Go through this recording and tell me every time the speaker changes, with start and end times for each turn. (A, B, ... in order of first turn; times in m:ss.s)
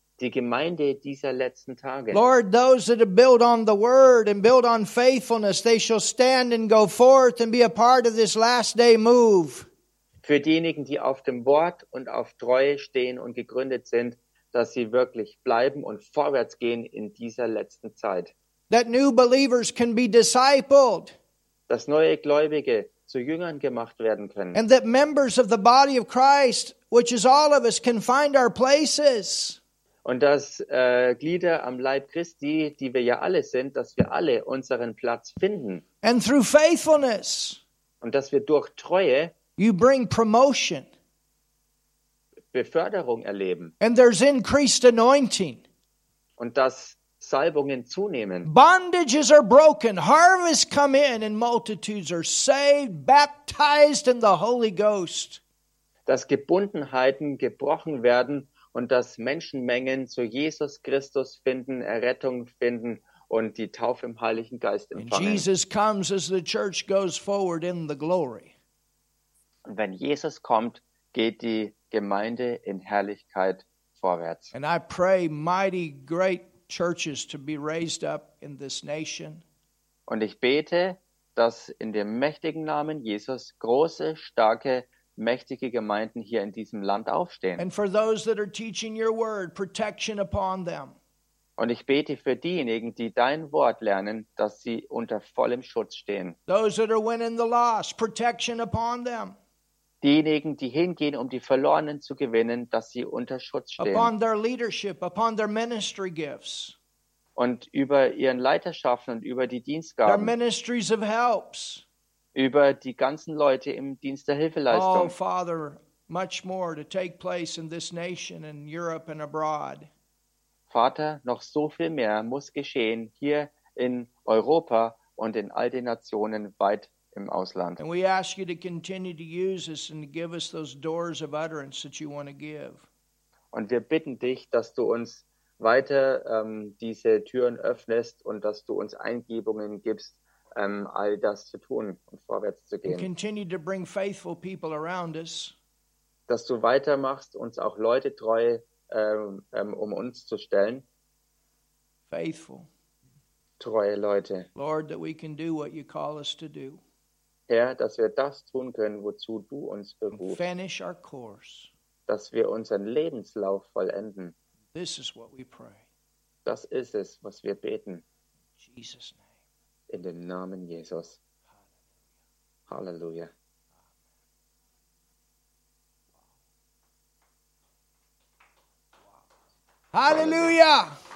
0:00.2-0:02.2 A
0:02.1-0:09.6 B
0:10.2-0:18.3 A
0:18.7-0:21.1 B
0:21.7-0:24.6 A
0:24.5-0:29.6 B
0:30.0-0:35.8 A
0:36.0-0:37.6 B
0:38.0-0:39.3 A
0:39.6-0:40.9 B
0:42.5-0:43.7 A
0:43.8-0:45.6 B
0:46.4-0:48.5 A
0:48.4-0:55.4 B
0:56.0-1:05.5 A
1:05.0-1:08.5 B
1:09.6-1:14.5 A
1:14.5-1:19.4 B
1:20.1-1:27.6 A
1:27.6-1:31.0 B
1:31.6-1:36.4 A
1:36.5-1:39.4 B
1:40.0-1:44.1 A
1:43.8-1:46.7 B
1:47.4-1:50.3 A
1:50.0-1:51.8 B
1:52.3-1:55.1 A
1:54.7-1:59.9 B
2:00.7-2:07.8 A
2:07.8-2:12.8 B
2:13.5-2:23.1 A
2:22.8-2:25.5 B
2:26.3-2:30.8 A
2:32.1-2:32.7 B
2:33.6-2:34.5 A
2:34.6-2:36.8 B
2:37.5-2:40.4 A
2:40.1-2:41.7 B
2:42.1-2:44.3 A
2:44.7-2:45.8 B
2:46.4-2:48.0 A
2:48.6-2:49.2 B
2:49.9-2:51.2 A
2:52.7-2:53.3 A
2:59.9-3:00.9 B
3:00.1-3:00.5 A